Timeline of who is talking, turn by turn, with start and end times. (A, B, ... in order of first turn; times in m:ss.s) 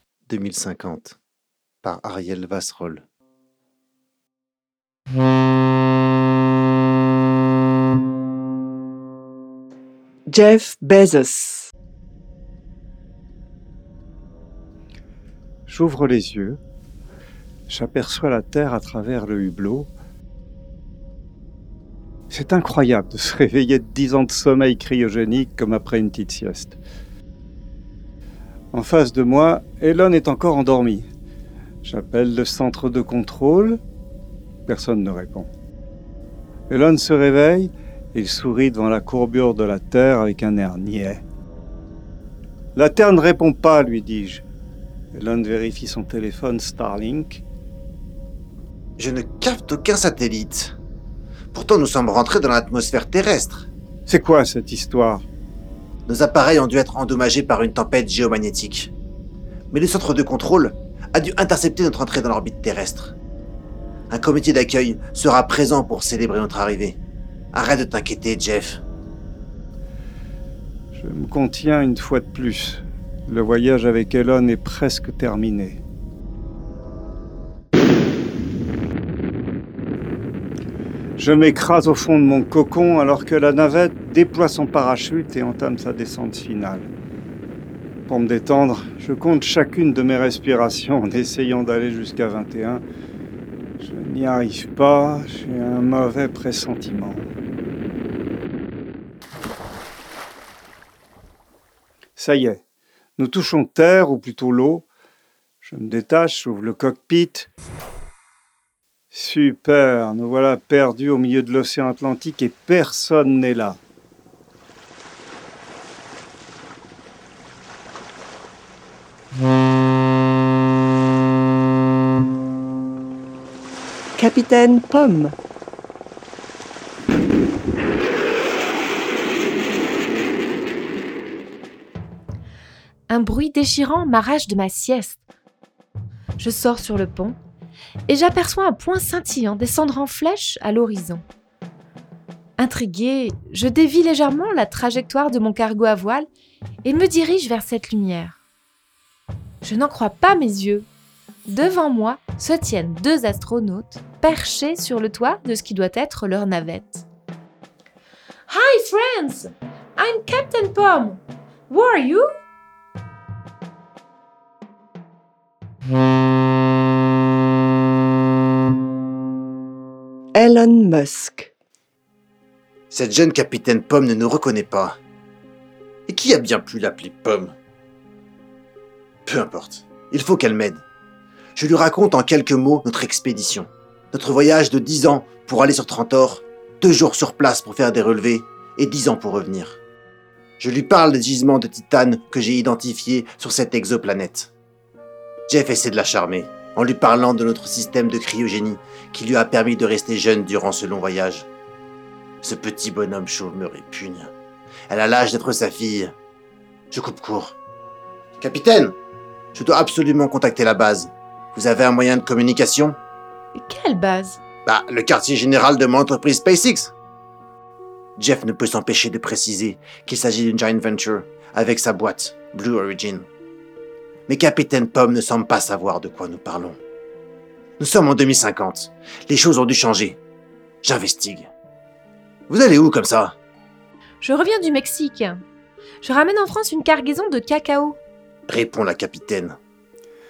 0:00.3-0:01.2 A
0:01.8-0:03.0 A
0:10.3-0:11.7 B
0:15.7-0:16.6 C
0:17.7-0:19.9 C
0:22.3-0:26.8 C
0:28.7-0:31.1 C
0:31.8-0:33.8 C
0:34.7-0:35.5 C
0:36.7-0:41.2 C
0:42.8-0:44.5 C
0:45.1-0:47.4 C
0:49.0-0:50.8 A
0:51.5-0:53.7 A
0:54.1-0:55.3 C
0:56.1-0:58.9 A
0:59.7-1:03.2 A
1:04.1-1:07.0 A
1:07.5-1:08.8 A
1:10.9-1:15.8 C
1:21.2-1:26.9 C
1:28.1-1:32.8 C
1:33.8-1:37.3 C
1:42.2-1:42.6 C
1:43.2-1:44.9 C
1:45.6-1:47.5 C
1:49.1-1:53.8 C
2:04.2-2:05.3 B
2:13.1-2:15.2 D
2:16.4-2:17.4 D
2:18.1-2:21.2 D
2:22.6-2:26.3 D
2:26.8-2:28.4 D
2:29.6-2:30.9 D
2:31.5-2:37.1 D
2:38.5-2:42.3 D
2:50.4-2:51.5 B
2:52.9-2:55.0 A
2:56.1-2:57.6 A
2:59.3-3:00.8 A
3:01.6-3:09.8 A
3:10.6-3:14.5 A
3:15.5-3:21.5 A
3:22.4-3:24.3 A
3:24.9-3:26.2 A
3:26.9-3:27.6 A
3:28.4-3:29.0 A
3:29.5-3:33.0 A
3:33.6-3:34.4 D
3:34.7-3:36.9 A
3:38.2-3:43.3 A
3:44.3-3:46.8 A
3:47.8-3:50.2 A
3:50.8-3:51.5 A
3:52.5-3:53.4 A
3:54.2-3:55.4 D
3:56.0-3:58.0 D
3:58.5-3:59.6 A